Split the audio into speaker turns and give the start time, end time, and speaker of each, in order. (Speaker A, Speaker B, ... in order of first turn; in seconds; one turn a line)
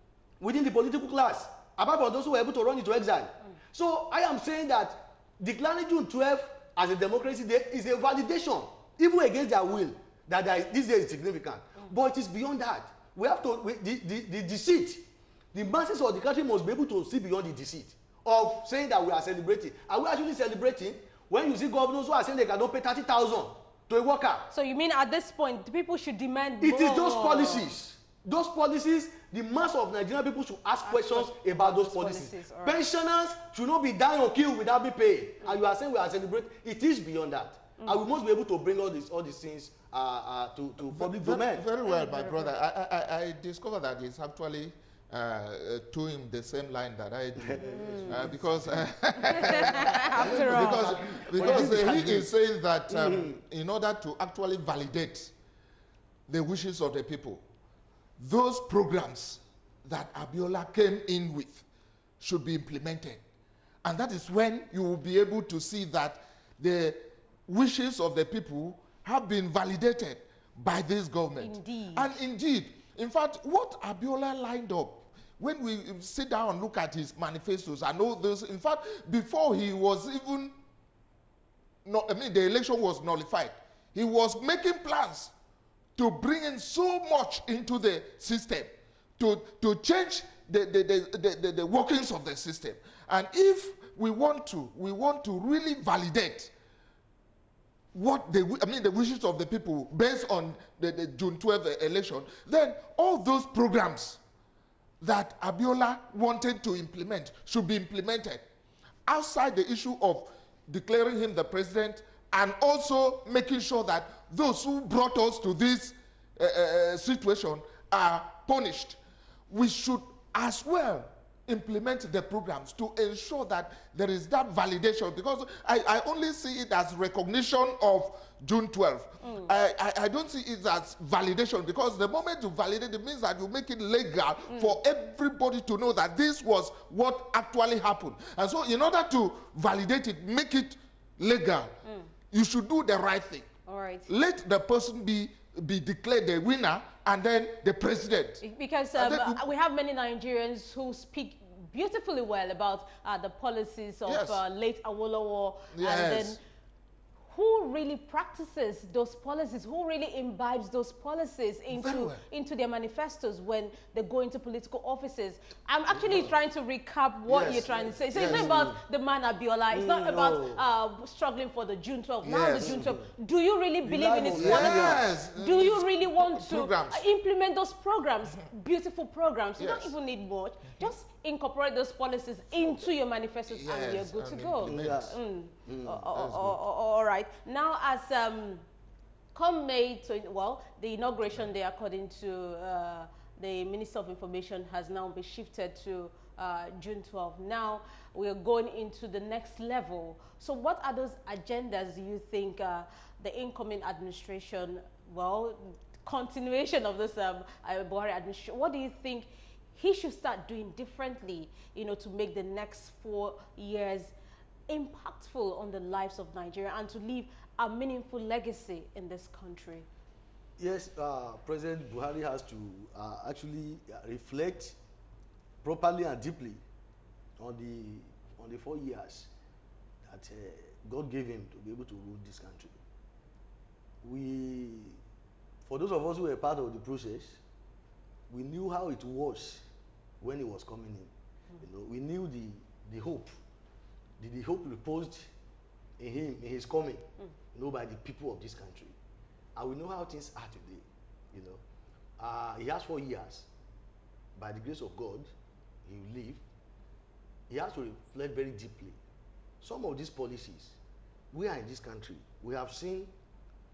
Speaker A: 0.4-24.5
Speaker B: 24.5-27.7
Speaker A: 26.6-41.7
Speaker B: 30.9-32.8
Speaker C: 40.9-55.3
Speaker B: 41.8-42.5
Speaker A: 47.4-52.3
Speaker B: 47.6-48.3
Speaker B: 49.2-51.7
Speaker A: 52.9-53.4
Speaker C: 56.3-57.4
Speaker C: 58.2-61.6
Speaker C: 62.2-63.2
Speaker C: 63.8-80.5
Speaker B: 71.4-72.2
Speaker C: 81.8-85.3
Speaker C: 86.0-96.5
Speaker C: 97.9-104.2
Speaker C: 105.0-108.4
Speaker C: 109.0-119.0
Speaker C: 119.5-141.7
Speaker B: 129.2-129.5
Speaker B: 134.5-134.8
Speaker C: 142.3-143.5
Speaker B: 143.7-144.1
Speaker C: 144.1-148.4
Speaker B: 148.4-156.4
Speaker C: 148.9-149.4
Speaker C: 154.1-154.4
Speaker C: 155.7-156.4
Speaker B: 157.3-188.6
Speaker C: 161.7-162.2
Speaker A: 165.9-166.3
Speaker C: 167.3-168.7
Speaker A: 167.4-168.7
Speaker A: 169.7-170.6
Speaker C: 172.2-172.9
Speaker A: 172.6-173.1
Speaker A: 173.8-175.1
Speaker C: 174.4-177.0
Speaker C: 179.6-179.9
Speaker C: 183.5-185.1
Speaker A: 184.6-185.2
Speaker A: 185.7-186.0
Speaker C: 186.1-186.6
Speaker B: 189.3-214.1
Speaker B: 214.7-219.8
Speaker A: 220.6-224.8
Speaker A: 225.6-226.6
Speaker A: 227.4-229.3
Speaker A: 230.0-232.8
Speaker A: 234.0-235.0
Speaker A: 235.7-237.4
Speaker A: 238.3-239.6
Speaker A: 240.2-243.3
Speaker A: 244.2-245.3
Speaker A: 246.0-248.9
Speaker A: 249.6-251.6
Speaker A: 252.2-253.5
Speaker A: 254.3-255.3
Speaker A: 255.8-256.4
Speaker A: 257.5-259.0
Speaker A: 259.6-260.8
Speaker A: 261.3-263.1